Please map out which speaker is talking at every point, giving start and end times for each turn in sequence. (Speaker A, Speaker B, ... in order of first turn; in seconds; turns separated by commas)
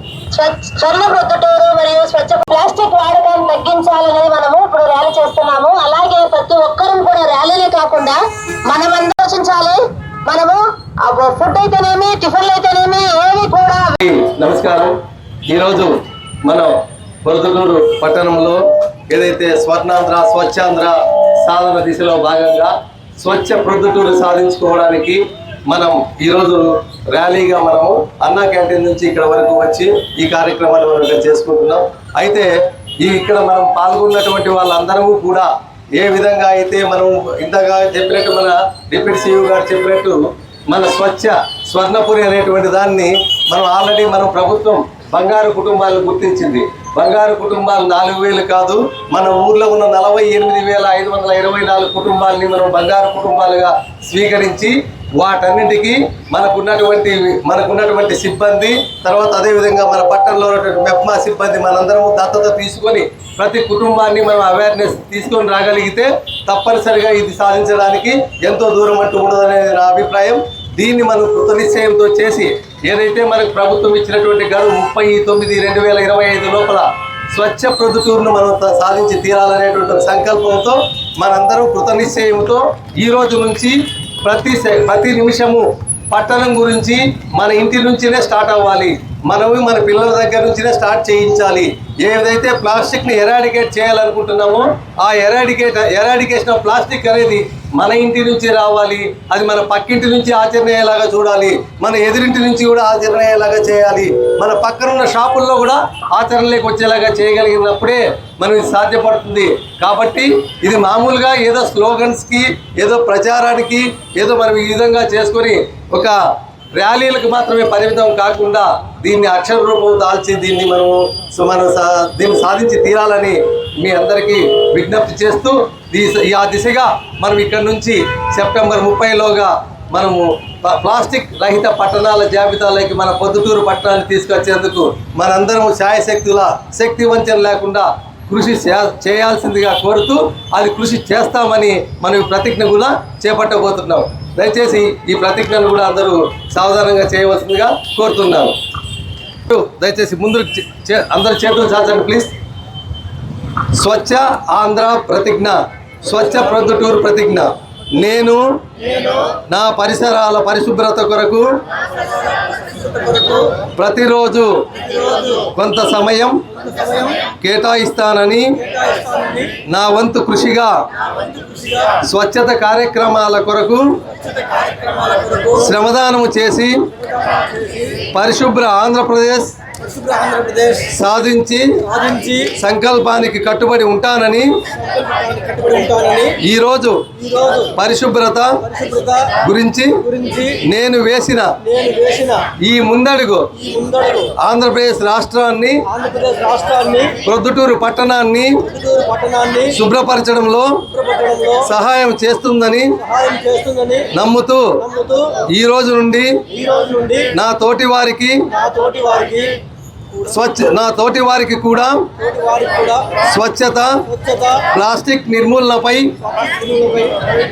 Speaker A: 0.3-14.0, Speaker B: 14.0-116.2, Speaker B: 116.7-148.6, Speaker B: 149.5-152.3, Speaker B: 153.7-158.4, Speaker C: 158.8-159.2, Speaker B: 159.5-161.5, Speaker C: 162.4-163.5, Speaker B: 163.6-164.5, Speaker C: 164.8-165.4, Speaker B: 165.4-166.4, Speaker C: 166.6-167.2, Speaker B: 167.3-168.6, Speaker C: 168.6-169.5, Speaker B: 169.6-170.7, Speaker C: 171.3-171.8, Speaker B: 172.0-174.0, Speaker C: 174.4-175.6, Speaker B: 175.5-176.8, Speaker C: 177.2-177.9, Speaker B: 178.1-179.5, Speaker C: 179.8-180.9, Speaker B: 180.9-181.8, Speaker C: 181.9-182.5, Speaker B: 182.5-184.5, Speaker C: 184.8-186.3, Speaker B: 186.4-187.1, Speaker C: 187.2-187.7, Speaker B: 187.7-188.6, Speaker C: 188.6-189.3, Speaker B: 189.4-190.0, Speaker C: 190.0-190.6, Speaker B: 190.6-191.5, Speaker C: 191.6-192.4, Speaker B: 192.6-193.5, Speaker C: 193.6-194.3, Speaker B: 194.4-195.8, Speaker C: 195.9-197.2, Speaker B: 197.2-198.6, Speaker C: 198.7-199.7, Speaker B: 199.7-200.8, Speaker C: 200.9-201.7, Speaker B: 201.6-203.0, Speaker C: 203.0-204.1, Speaker B: 204.1-204.7, Speaker C: 204.8-205.3, Speaker B: 205.5-206.4, Speaker C: 206.5-207.3, Speaker B: 207.3-208.5, Speaker C: 208.5-209.5, Speaker B: 210.2-212.1, Speaker C: 212.2-213.1, Speaker B: 213.2-214.1, Speaker C: 214.1-214.6, Speaker B: 214.7-216.2, Speaker C: 216.2-217.2